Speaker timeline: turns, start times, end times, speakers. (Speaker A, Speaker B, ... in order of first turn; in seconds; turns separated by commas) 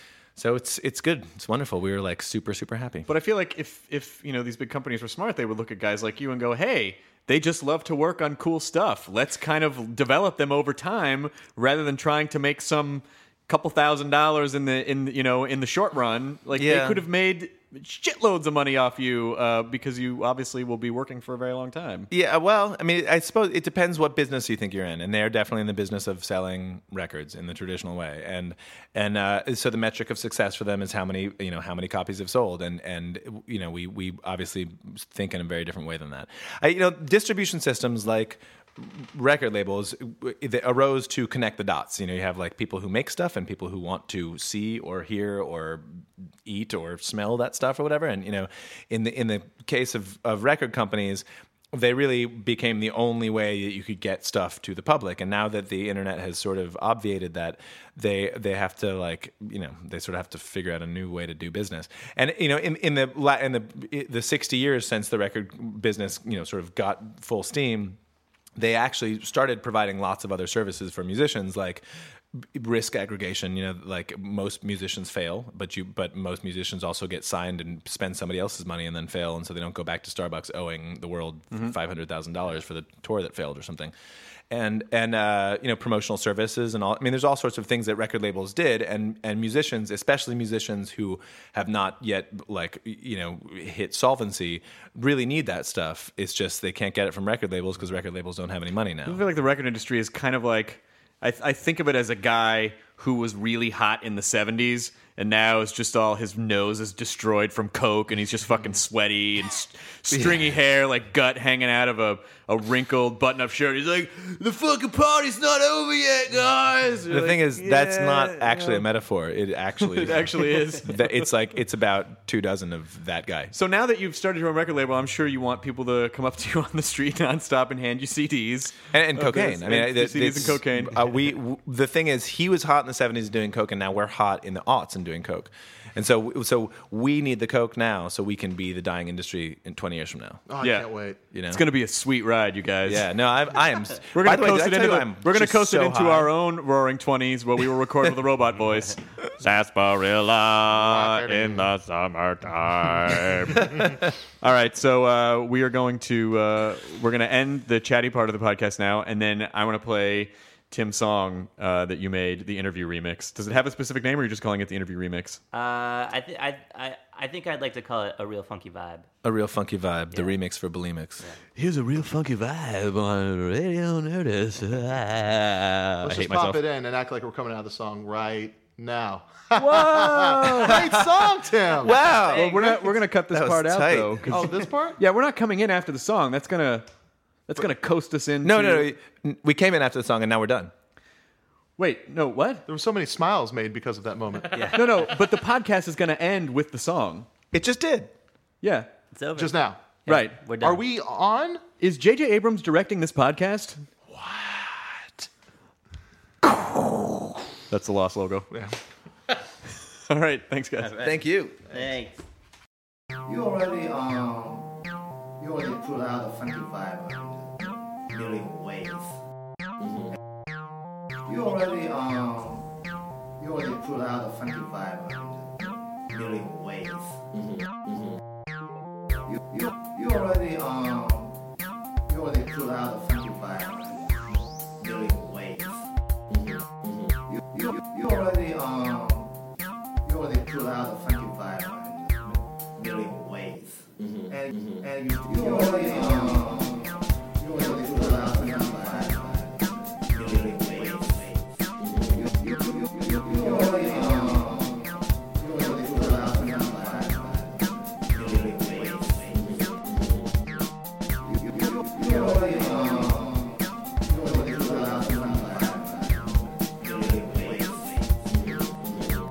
Speaker A: 0.4-3.1, Speaker B: 3.1-22.1, Speaker A: 16.5-17.1, Speaker A: 22.1-68.0, Speaker A: 68.6-71.8, Speaker A: 72.4-83.9, Speaker A: 84.5-99.2, Speaker B: 99.1-118.9, Speaker A: 110.1-110.4, Speaker A: 117.1-123.5, Speaker B: 119.8-121.3, Speaker B: 123.5-131.2, Speaker A: 128.9-140.4, Speaker C: 140.5-141.2, Speaker B: 140.6-140.9, Speaker A: 141.3-141.6, Speaker B: 141.5-143.1, Speaker A: 142.8-146.3, Speaker B: 144.1-165.4, Speaker C: 150.7-151.7, Speaker D: 165.5-169.1, Speaker A: 169.2-171.2, Speaker B: 171.6-176.6, Speaker C: 176.0-181.9, Speaker B: 179.5-180.9, Speaker A: 180.7-182.8, Speaker D: 182.1-183.0, Speaker B: 182.3-186.9, Speaker A: 183.3-184.3, Speaker C: 184.3-185.0, Speaker B: 187.5-188.9, Speaker A: 188.4-190.7, Speaker B: 191.8-192.6, Speaker C: 192.7-194.8, Speaker D: 194.5-195.1, Speaker B: 194.7-197.3, Speaker A: 197.5-198.1, Speaker B: 198.6-198.9, Speaker D: 199.1-200.9, Speaker C: 199.4-199.9, Speaker B: 200.1-200.4, Speaker C: 200.6-201.6, Speaker B: 201.8-203.8, Speaker A: 204.1-205.3, Speaker B: 207.7-208.5, Speaker B: 210.1-210.9, Speaker D: 210.8-212.2, Speaker A: 211.0-211.6, Speaker E: 213.3-214.7, Speaker E: 215.4-217.6, Speaker E: 218.1-219.1, Speaker E: 221.2-222.7, Speaker E: 223.4-227.2, Speaker E: 229.5-231.3, Speaker E: 232.1-234.1, Speaker E: 234.8-235.8, Speaker E: 237.5-239.3, Speaker E: 240.0-259.5, Speaker E: 261.3-267.8